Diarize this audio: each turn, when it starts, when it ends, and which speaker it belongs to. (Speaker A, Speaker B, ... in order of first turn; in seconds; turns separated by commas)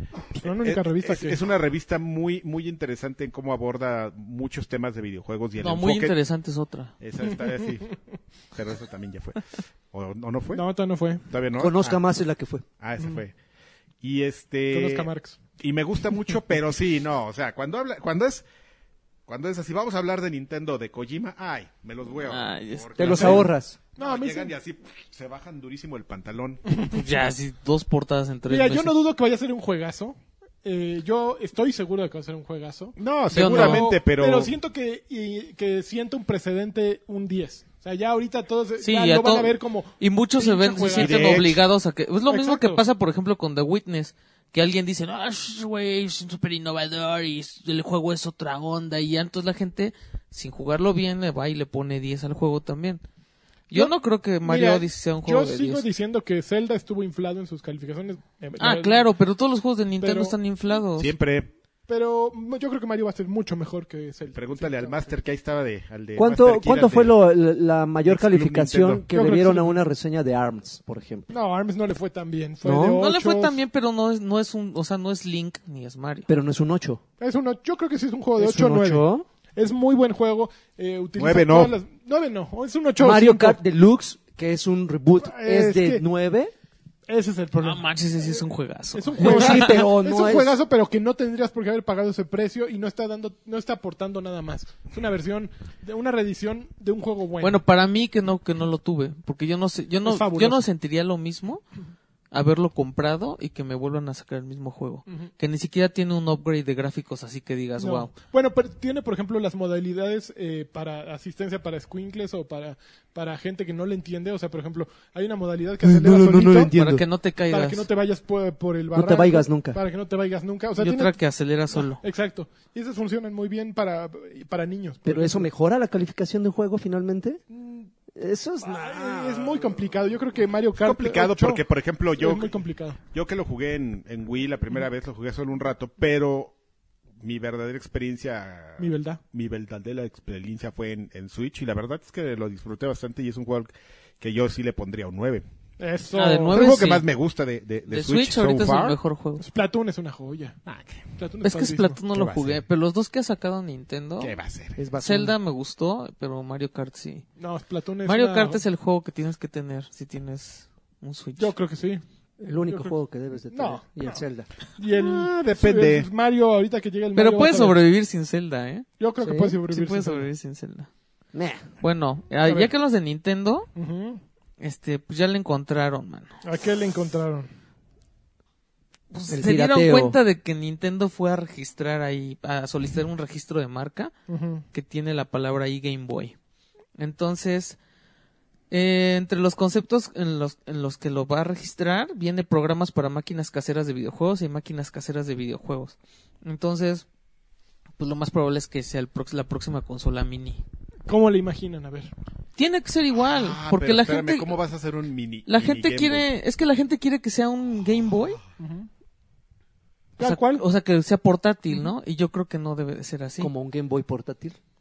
Speaker A: 0.4-1.4, Speaker B: 0.4-6.2, Speaker C: 5.6-6.9, Speaker B: 7.0-7.9, Speaker B: 8.5-10.6, Speaker A: 10.5-11.2, Speaker B: 11.3-12.0, Speaker D: 11.6-12.6, Speaker B: 12.8-13.3, Speaker B: 14.0-18.4, Speaker A: 14.7-15.4, Speaker B: 19.3-26.6, Speaker C: 22.2-23.4, Speaker D: 23.0-23.8, Speaker A: 23.1-23.4, Speaker A: 24.0-24.5, Speaker A: 26.7-27.1, Speaker C: 26.9-28.9, Speaker A: 28.5-41.4, Speaker B: 33.0-34.5, Speaker C: 33.3-33.9, Speaker C: 38.8-53.0, Speaker B: 41.0-41.6, Speaker A: 42.3-42.8, Speaker C: 53.7-55.9, Speaker A: 53.7-59.1, Speaker C: 58.6-61.1, Speaker A: 60.0-60.4, Speaker B: 61.0-61.5, Speaker A: 61.9-65.1, Speaker B: 64.3-67.2, Speaker D: 66.2-71.3, Speaker B: 68.0-69.0, Speaker A: 69.1-69.8, Speaker A: 71.3-73.6, Speaker D: 72.6-73.0, Speaker C: 73.0-76.3, Speaker D: 76.3-77.0, Speaker A: 77.2-83.6, Speaker D: 78.4-79.2, Speaker B: 81.2-81.7, Speaker D: 83.0-86.5, Speaker A: 85.2-86.0, Speaker A: 87.1-97.6, Speaker C: 87.6-89.8, Speaker D: 89.2-90.6, Speaker C: 97.4-101.6, Speaker A: 100.0-100.6, Speaker C: 102.3-108.1, Speaker A: 107.8-116.7, Speaker D: 115.8-117.0, Speaker C: 116.7-117.8, Speaker A: 117.5-121.1, Speaker D: 118.9-119.8, Speaker C: 120.8-122.0, Speaker A: 121.7-125.5, Speaker D: 125.0-127.4, Speaker A: 127.5-127.9, Speaker D: 128.1-128.9, Speaker A: 128.6-131.6, Speaker B: 128.9-129.8, Speaker B: 130.8-136.5, Speaker A: 132.2-133.0, Speaker B: 137.2-145.4, Speaker A: 138.8-139.2, Speaker A: 145.8-146.7, Speaker C: 146.1-147.1, Speaker B: 146.5-149.0, Speaker C: 147.9-149.4, Speaker A: 149.4-150.6, Speaker B: 150.7-151.0, Speaker A: 151.2-152.0, Speaker C: 151.4-154.3, Speaker B: 152.1-152.6, Speaker B: 154.2-154.8, Speaker D: 154.8-155.3, Speaker C: 155.0-157.2, Speaker A: 157.4-158.6, Speaker C: 158.0-161.5, Speaker A: 161.4-162.0, Speaker D: 162.4-164.5, Speaker A: 162.7-162.9, Speaker A: 163.5-164.2, Speaker A: 164.8-167.8, Speaker B: 164.9-166.1, Speaker C: 167.1-168.9, Speaker A: 169.0-170.3, Speaker D: 169.2-169.6, Speaker C: 169.7-170.9, Speaker D: 171.3-171.7, Speaker C: 171.8-173.7, Speaker A: 172.4-172.7, Speaker A: 173.7-174.2, Speaker C: 174.6-176.3, Speaker A: 176.4-177.5, Speaker C: 179.1-184.1, Speaker D: 179.3-180.2, Speaker A: 184.3-184.6, Speaker C: 184.7-186.3, Speaker C: 187.0-187.8, Speaker C: 188.7-197.1, Speaker C: 198.0-200.6, Speaker A: 201.1-202.1, Speaker C: 202.6-204.6, Speaker B: 203.2-206.3, Speaker C: 205.4-208.4, Speaker A: 208.6-208.9, Speaker A: 210.2-210.6, Speaker C: 210.2-213.5, Speaker D: 213.4-214.6